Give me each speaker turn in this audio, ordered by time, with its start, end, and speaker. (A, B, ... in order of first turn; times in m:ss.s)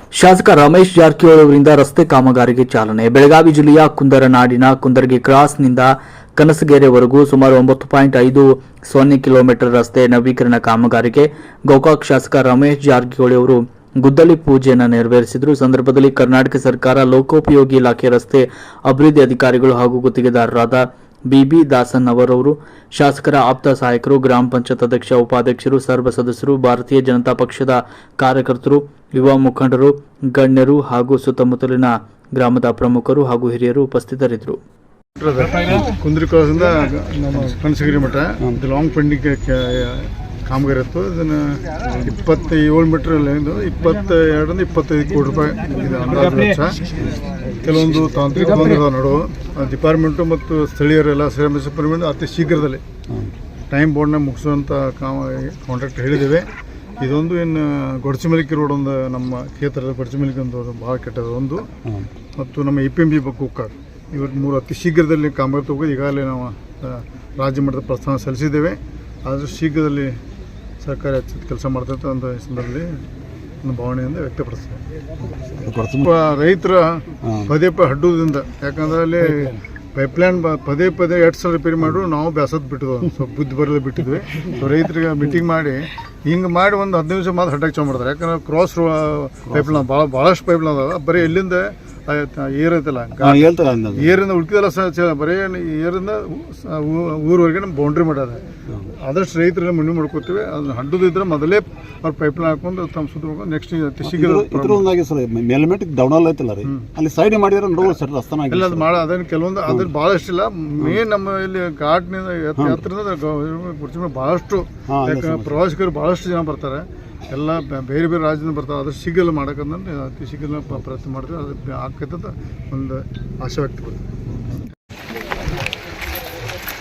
0:00.2-0:34.6 A
0:35.2-0:46.8 B
0:47.6-0:52.8 B
0:53.7-1:01.7 B
1:02.4-1:10.2 B
1:10.8-1:12.9 B
1:13.6-1:14.8 B
1:15.4-1:16.2 C
1:16.0-1:38.4 B
1:17.3-1:17.5 C
1:29.5-1:29.8 C
1:33.2-1:34.2 C
1:39.0-1:44.9 B
1:44.0-1:48.9 C
1:48.5-2:04.1 B
1:52.6-1:52.9 C
1:54.9-1:55.6 C